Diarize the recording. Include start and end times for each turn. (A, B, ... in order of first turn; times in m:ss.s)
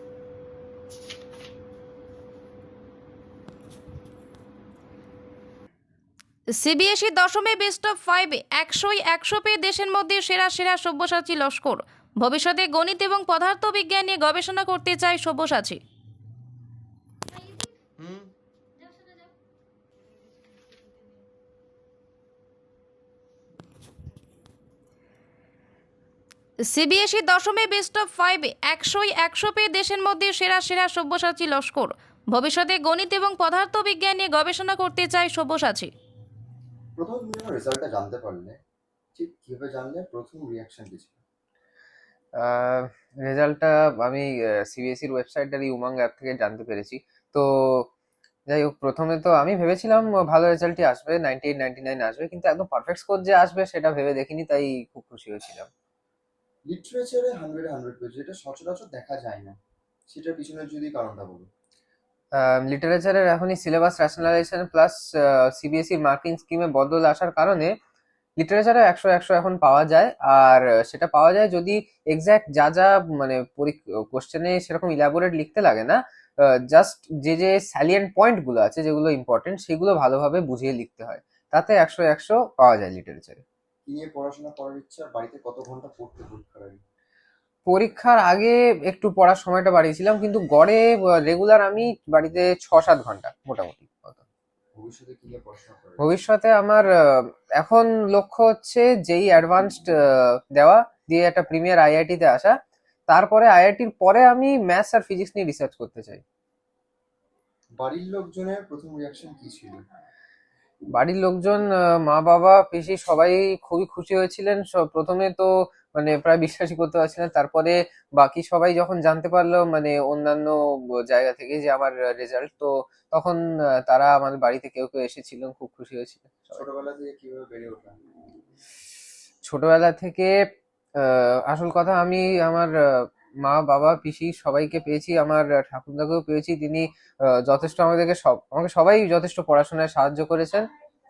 0:06.6-0:15.8 A
0:26.7-0:35.9 A
0:37.0-0:38.6 B
0:39.2-0:41.2 B
0:42.4-0:47.9 C
0:48.5-0:55.7 C
0:56.7-0:59.6 B
1:00.1-1:01.5 B
1:02.4-1:07.7 C
1:08.4-1:16.0 C
1:16.7-1:23.4 C
1:23.9-1:26.8 B
1:27.7-1:34.2 C
1:34.8-1:36.1 B
1:36.0-1:36.9 C
1:37.6-1:42.5 C
1:43.1-1:46.2 C
1:47.8-1:49.8 B
1:50.9-2:00.5 C
2:01.1-2:06.6 C
2:06.5-2:08.0 B
2:09.4-2:10.3 C
2:11.0-2:12.7 C
2:13.4-2:16.9 C
2:17.4-2:20.7 C